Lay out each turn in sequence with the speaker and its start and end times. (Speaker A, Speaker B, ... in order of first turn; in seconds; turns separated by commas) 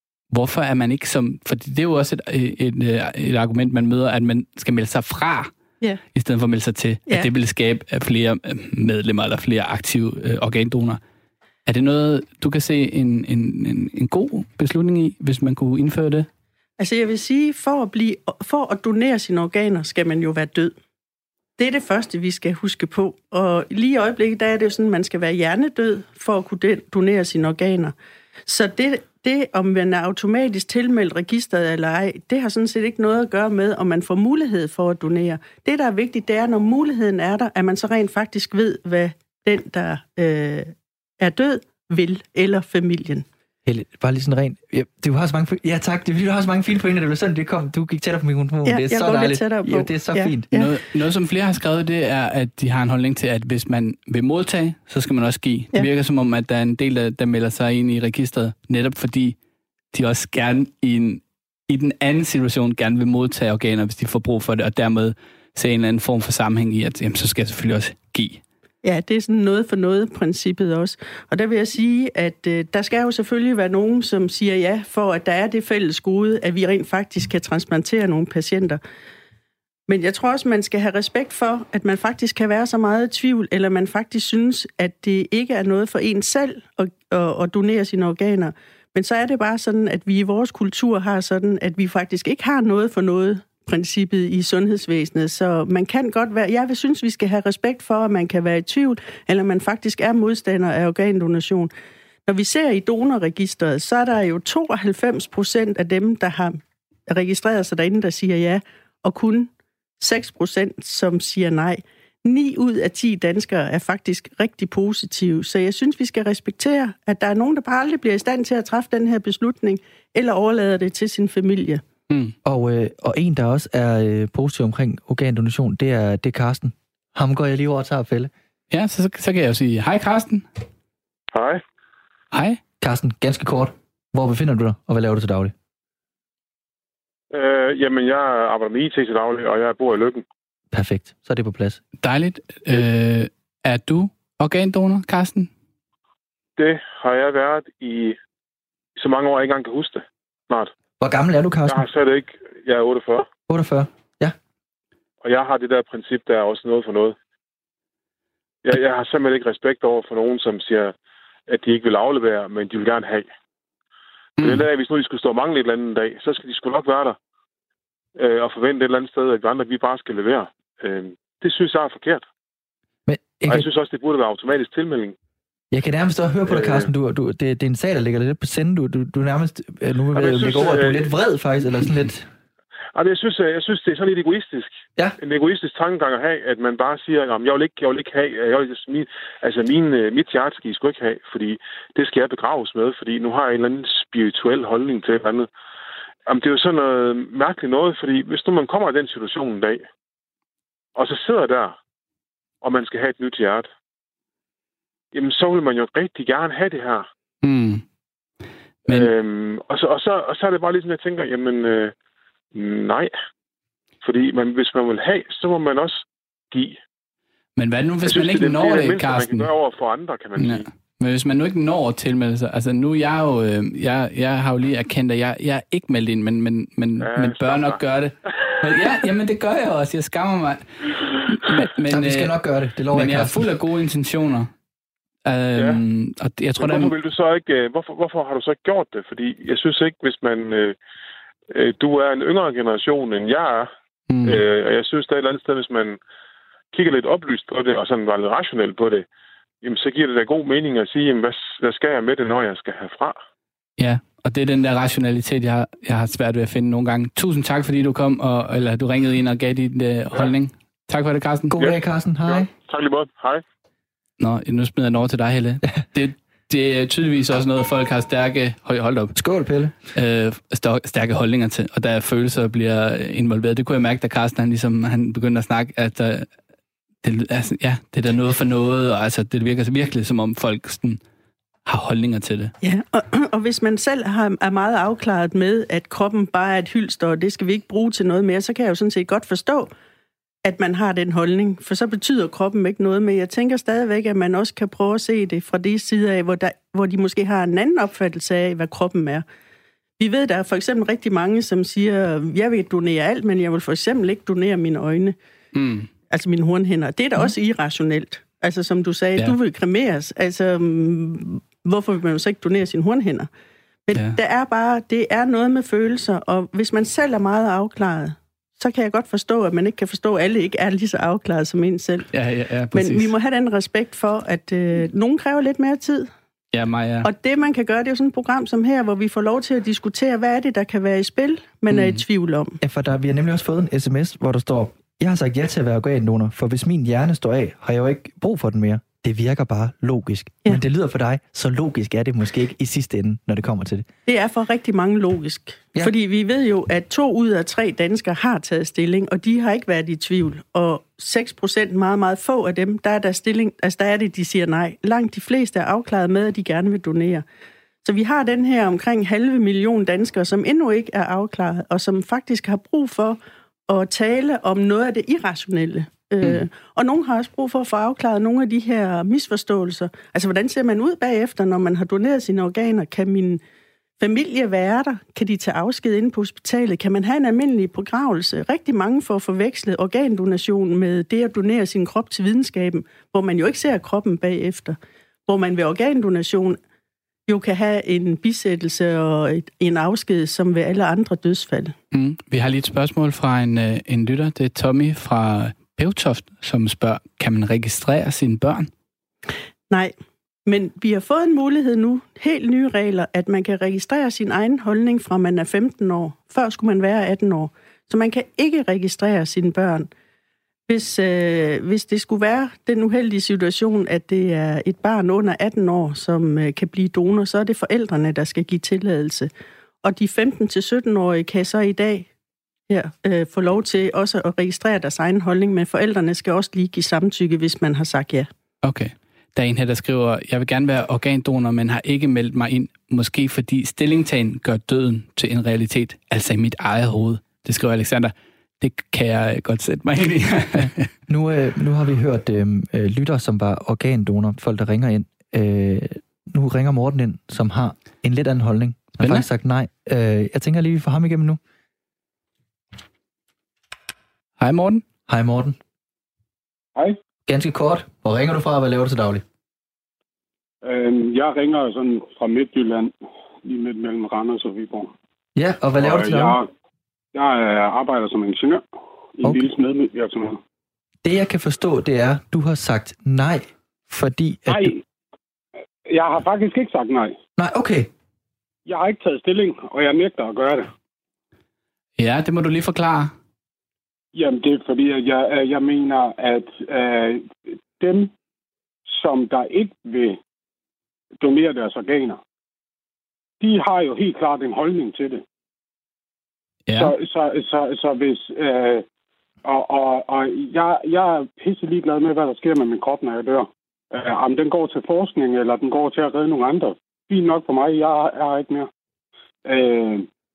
Speaker A: 0.3-5.5, Speaker A: 6.2-11.0, Speaker A: 11.7-16.3, Speaker B: 16.8-20.7, Speaker B: 21.6-27.9, Speaker B: 28.5-43.3, Speaker C: 43.6-50.5, Speaker B: 48.7-50.7, Speaker A: 50.5-59.4, Speaker A: 59.9-68.4, Speaker B: 68.8-78.8, Speaker B: 79.9-101.7, Speaker B: 102.3-121.8, Speaker A: 122.1-122.3, Speaker C: 122.4-128.3, Speaker A: 128.7-130.5, Speaker D: 131.3-131.6, Speaker A: 132.3-132.6, Speaker C: 132.8-135.5, Speaker D: 137.3-140.2, Speaker C: 140.7-141.8, Speaker A: 142.0-145.5, Speaker D: 146.6-148.2, Speaker D: 149.0-150.7, Speaker C: 151.0-151.8, Speaker D: 151.7-153.3, Speaker C: 153.5-154.4, Speaker D: 155.2-157.2, Speaker D: 158.7-160.9, Speaker D: 161.5-163.3, Speaker A: 164.4-164.7, Speaker D: 164.4-167.2, Speaker D: 168.2-172.2, Speaker C: 173.1-173.7, Speaker D: 173.5-175.2, Speaker C: 175.7-182.3, Speaker D: 176.5-176.9, Speaker D: 180.2-181.0, Speaker D: 182.9-195.5, Speaker D: 196.3-199.8, Speaker D: 201.0-201.8, Speaker D: 202.6-203.7, Speaker D: 205.1-207.1, Speaker A: 207.4-207.8, Speaker D: 208.9-211.9, Speaker D: 212.5-213.1, Speaker D: 214.0-216.8, Speaker A: 217.6-219.5, Speaker D: 218.1-220.7, Speaker A: 220.4-232.3, Speaker D: 227.0-227.8, Speaker D: 228.5-228.8, Speaker C: 231.9-233.5, Speaker A: 232.9-234.5, Speaker A: 235.2-236.9, Speaker D: 235.6-235.8, Speaker D: 236.6-240.8, Speaker D: 241.5-243.7, Speaker A: 244.1-244.4, Speaker D: 244.2-246.0, Speaker D: 246.7-249.1, Speaker D: 249.6-253.2, Speaker A: 253.8-261.5, Speaker C: 261.5-262.5, Speaker D: 261.6-263.4, Speaker A: 264.2-269.2, Speaker C: 269.1-269.8, Speaker A: 269.9-276.3, Speaker A: 277.0-281.0, Speaker A: 281.7-282.5, Speaker B: 282.6-289.7, Speaker B: 290.4-299.2, Speaker B: 300.0-305.2, Speaker A: 305.6-305.9, Speaker B: 306.1-313.3, Speaker B: 313.9-322.1, Speaker A: 322.1-323.1, Speaker B: 322.7-326.1, Speaker A: 326.5-327.1, Speaker B: 327.0-332.6, Speaker A: 331.7-332.0, Speaker C: 332.6-343.9, Speaker B: 344.1-357.2, Speaker B: 357.8-373.4, Speaker B: 374.0-386.6, Speaker B: 387.3-391.8, Speaker A: 391.9-398.7, Speaker B: 400.5-409.9, Speaker B: 410.7-419.3, Speaker B: 419.8-422.1, Speaker B: 422.7-428.3, Speaker A: 428.6-440.9, Speaker C: 441.1-451.4, Speaker A: 449.0-449.2, Speaker A: 454.4-454.8, Speaker C: 455.1-455.6, Speaker C: 457.3-459.2, Speaker E: 460.6-462.9, Speaker E: 463.4-464.9, Speaker C: 465.4-466.4, Speaker E: 465.8-466.5, Speaker E: 467.1-468.6, Speaker E: 469.2-470.4, Speaker C: 471.0-474.8, Speaker E: 474.5-474.8, Speaker E: 475.9-477.2, Speaker C: 477.4-477.9, Speaker E: 478.7-480.7, Speaker A: 482.0-483.1, Speaker E: 484.1-488.1, Speaker E: 488.9-490.2, Speaker E: 491.2-492.2, Speaker E: 493.4-495.2, Speaker A: 496.7-496.9, Speaker E: 496.8-498.8, Speaker E: 499.4-508.7, Speaker E: 509.5-510.1